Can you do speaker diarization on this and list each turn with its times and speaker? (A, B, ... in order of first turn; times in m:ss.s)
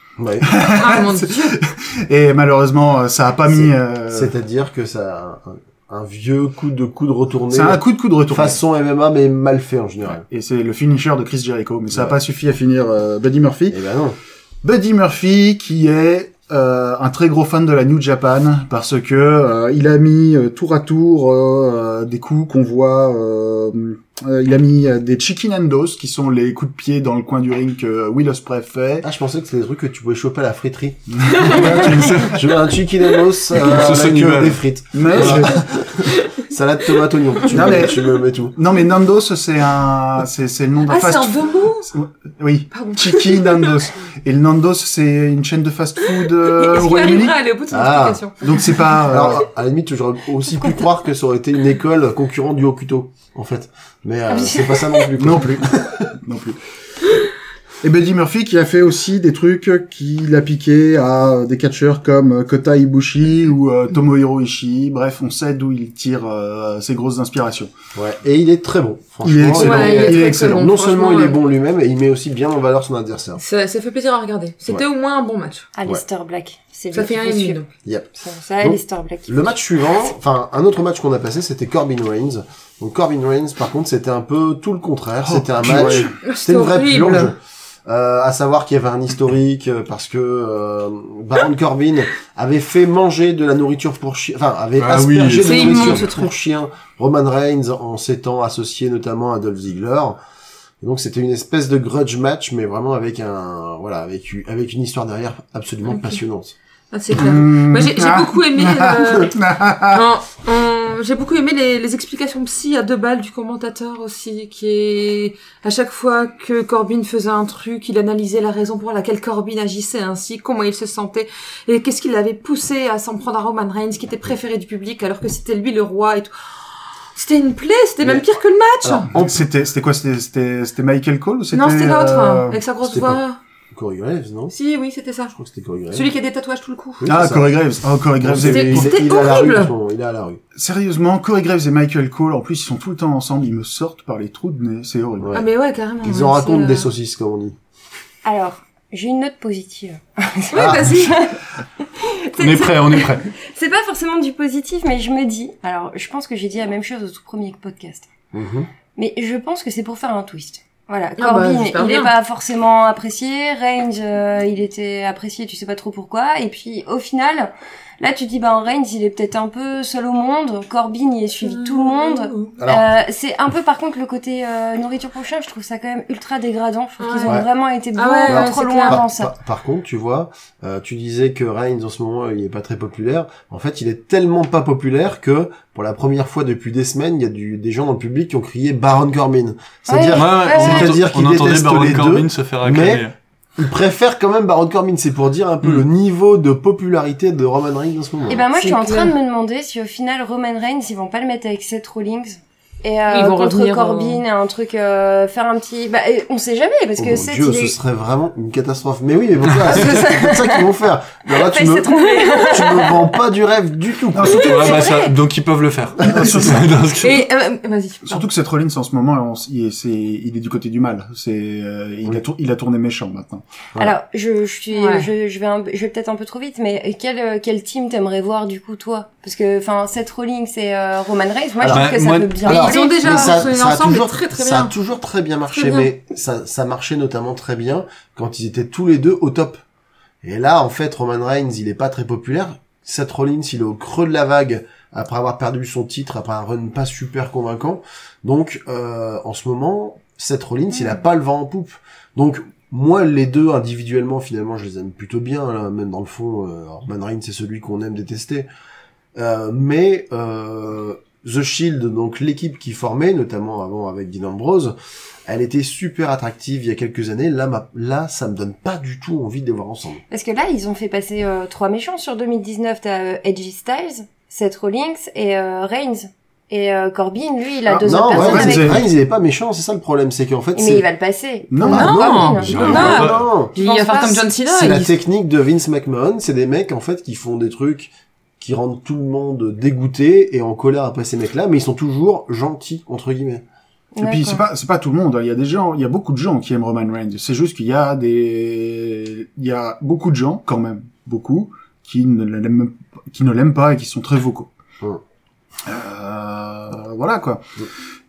0:00.2-0:00.5 A
0:00.4-0:04.3 B
0:00.7-0:01.6 C
0:03.5-0:10.2 A
0:07.5-0:08.6 B
0:10.3-0:13.8 B
0:13.7-0:14.2 A
0:14.6-0:29.1 B
0:29.0-0:38.6 A
0:31.1-0:32.4 B
0:31.9-0:32.4 D
0:33.5-0:35.5 D
0:34.9-0:35.6 B
0:37.5-0:47.4 B
0:40.9-0:41.9 C
0:42.7-0:43.8 C
0:46.4-0:48.9 C
0:47.7-0:48.2 A
0:48.4-0:49.5 B
0:49.0-0:56.1 A
0:54.4-0:54.9 E
0:55.2-0:56.6 B
0:57.8-1:07.7 B
1:08.0-1:13.4 A
1:09.2-1:10.7 B
1:09.5-1:11.4 C
1:13.4-1:15.7 C
1:15.8-1:17.6 E
1:16.9-1:17.7 C
1:17.8-1:40.2 A
1:18.2-1:19.6 E
1:25.2-1:26.2 B
1:26.2-1:27.3 C
1:34.8-1:36.1 D
1:35.4-1:36.3 C
1:40.8-1:46.5 A
1:45.9-1:46.2 C
1:46.9-1:49.4 C
1:47.1-1:50.0 B
1:49.9-2:06.6 C
2:07.2-2:09.1 C
2:08.8-2:09.4 A
2:09.1-2:12.6 B
2:11.5-2:13.4 C
2:12.8-2:13.2 A
2:13.7-2:14.6 A
2:14.5-2:15.3 C
2:15.3-2:16.1 A
2:15.9-2:17.0 C
2:17.0-2:17.6 A
2:17.0-2:19.0 B
2:18.2-2:20.4 A
2:18.4-2:19.8 C
2:20.6-2:25.3 B
2:25.2-2:25.5 A
2:25.3-2:26.9 C
2:26.0-2:27.6 A
2:28.2-2:31.4 E
2:30.5-2:31.2 C
2:30.6-2:31.1 A
2:32.0-2:38.1 E
2:32.4-2:33.3 D
2:38.3-2:38.7 A
2:39.0-2:59.3 E
2:41.2-2:42.1 C
2:51.4-2:52.5 C
2:52.6-2:52.9 A
2:57.0-2:57.4 C
2:58.0-2:59.0 C
2:58.2-3:13.0 A
3:09.9-3:11.0 E
3:10.0-3:13.2 D
3:13.6-3:18.4 A
3:18.3-3:27.8 E
3:18.6-3:19.1 C
3:23.1-3:24.2 C
3:27.0-3:34.8 A
3:29.6-3:30.7 E
3:31.3-3:33.1 E
3:34.1-3:34.6 B
3:34.2-3:35.2 E
3:34.3-3:37.2 D
3:36.0-3:36.7 B
3:36.1-3:36.5 A
3:37.0-3:38.3 C
3:38.1-3:43.4 B
3:43.8-3:53.4 E
3:44.7-3:45.1 C
3:51.6-3:52.5 D
3:52.4-3:59.6 A
3:52.5-3:54.7 C
3:55.5-3:55.9 C
4:00.2-4:18.5 A
4:19.2-4:24.8 A
4:25.3-4:30.0 A
4:30.1-4:38.8 E
4:37.7-4:38.9 B
4:37.8-4:40.9 A
4:40.5-4:44.3 E
4:41.5-4:42.3 B
4:41.6-4:43.6 A
4:41.7-4:45.0 C
4:42.4-4:43.3 D
4:44.5-4:53.4 A
4:54.0-4:54.4 E
4:54.0-5:04.5 B
5:05.7-5:07.4 B